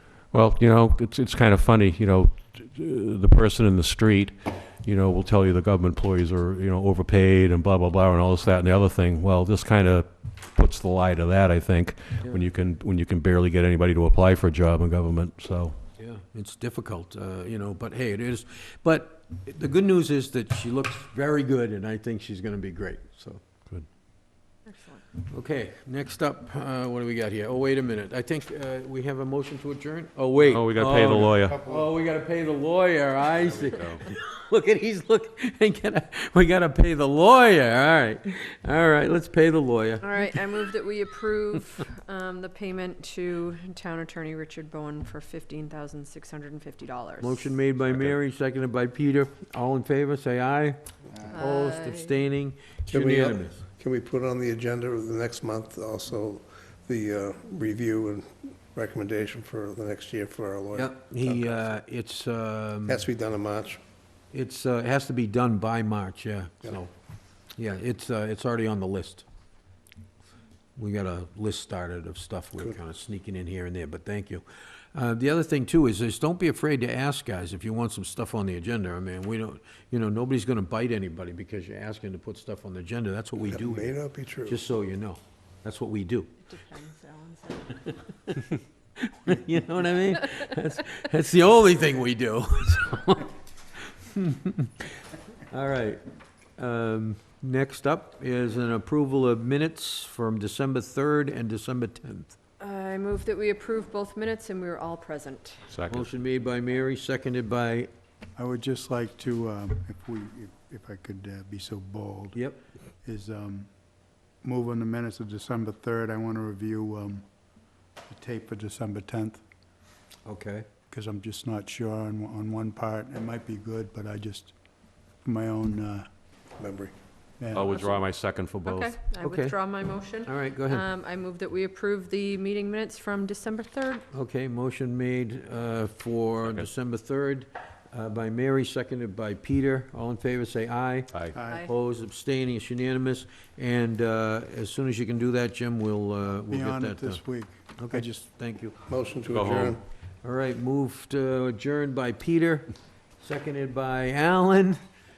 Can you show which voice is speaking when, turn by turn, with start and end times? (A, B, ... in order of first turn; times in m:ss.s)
0:00.3-0:15.8 A
0:16.0-0:23.4 B
0:24.7-0:25.0 C
0:25.2-0:40.4 B
0:30.4-0:31.6 A
0:33.4-0:34.0 A
0:40.0-0:47.5 C
0:47.2-0:50.8 B
0:47.8-0:48.2 A
0:51.3-0:53.6 B
0:51.3-0:52.1 C
0:52.9-1:01.8 D
1:00.7-1:03.0 B
1:02.9-1:03.8 D
1:04.3-1:06.9 B
1:07.6-1:09.2 B
1:10.8-1:14.4 B
1:14.9-1:26.3 B
1:23.5-1:24.6 D
1:26.5-1:27.8 C
1:29.0-1:34.9 B
1:35.5-1:36.0 B
1:36.6-1:42.3 B
1:42.6-1:45.7 C
1:45.7-1:46.1 A
1:45.9-1:47.9 B
1:48.4-1:52.4 E
1:52.3-1:52.6 B
1:53.0-1:53.7 E
1:54.4-1:57.3 E
1:58.1-1:59.4 E
2:00.3-2:00.7 B
2:00.9-2:04.5 E
2:05.2-2:06.1 E
2:06.6-2:06.9 D
2:07.4-2:07.8 E
2:07.5-2:08.9 A
2:08.6-2:14.0 C
2:09.2-2:10.9 B
2:14.1-2:27.2 B
2:16.4-2:16.7 A
2:21.3-2:21.7 E
2:21.4-2:21.7 C
2:26.5-2:28.3 E
2:27.8-2:28.8 B
2:28.9-2:29.8 D
2:29.3-2:29.7 A
2:29.4-2:34.8 B